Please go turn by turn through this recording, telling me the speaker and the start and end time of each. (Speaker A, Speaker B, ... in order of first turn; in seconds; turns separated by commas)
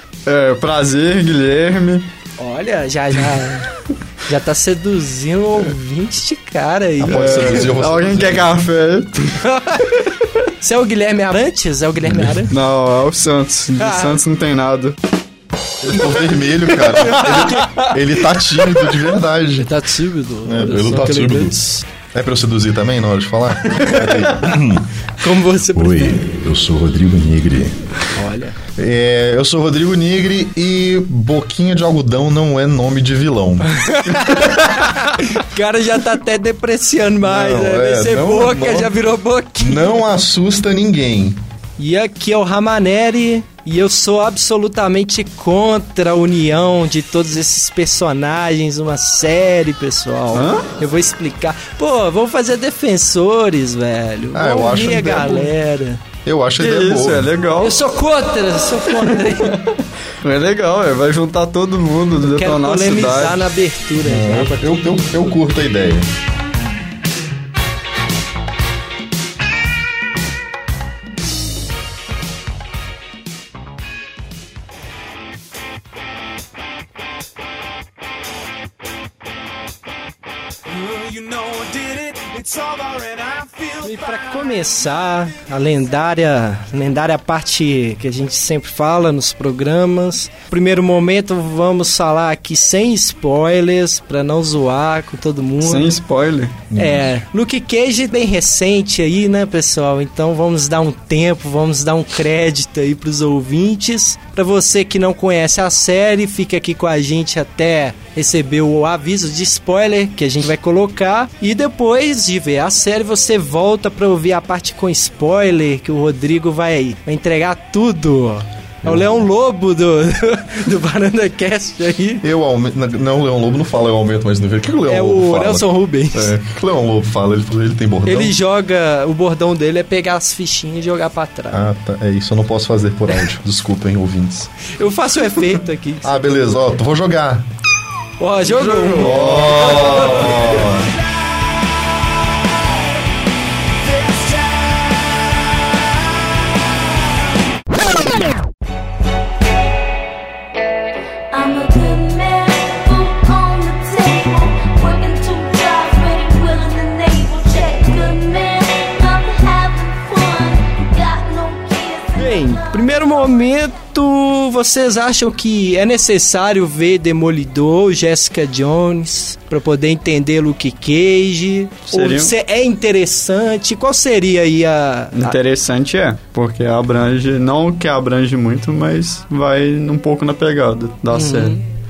Speaker A: 0.2-2.1, Speaker B: 2.4-3.6, Speaker B: 4.3-7.7, Speaker C: 7.0-8.6, Speaker A: 7.0-9.4, Speaker B: 9.4-10.0, Speaker B: 10.6-12.5, Speaker C: 12.0-12.4, Speaker A: 12.5-14.9, Speaker B: 13.8-14.2, Speaker C: 15.8-19.7, Speaker B: 16.9-17.9, Speaker B: 19.6-21.8, Speaker C: 20.4-21.5, Speaker C: 22.1-24.9, Speaker B: 25.2-26.2, Speaker C: 25.7-27.9, Speaker B: 28.1-28.6, Speaker C: 28.8-33.8, Speaker B: 33.7-39.9, Speaker C: 37.2-38.9, Speaker C: 39.6-41.4, Speaker B: 41.8-56.0, Speaker A: 50.3-50.7, Speaker C: 54.3-55.5, Speaker C: 56.2-57.3, Speaker A: 56.6-57.8, Speaker B: 57.6-59.7, Speaker A: 60.2-63.4, Speaker B: 62.2-64.5, Speaker C: 64.0-66.1, Speaker D: 80.7-84.5, Speaker B: 83.8-95.9, Speaker A: 95.6-96.6, Speaker C: 96.7-97.0, Speaker B: 96.7-122.2, Speaker C: 118.8-119.2, Speaker C: 122.2-128.3, Speaker B: 124.9-126.3, Speaker B: 128.1-131.6, Speaker C: 131.5-134.5, Speaker B: 134.8-136.2, Speaker C: 136.0-137.4, Speaker B: 138.2-140.5, Speaker A: 138.4-140.6, Speaker C: 138.9-140.9, Speaker E: 151.3-162.8, Speaker B: 162.2-175.4, Speaker A: 171.9-172.3, Speaker A: 175.1-181.6, Speaker B: 181.1-181.6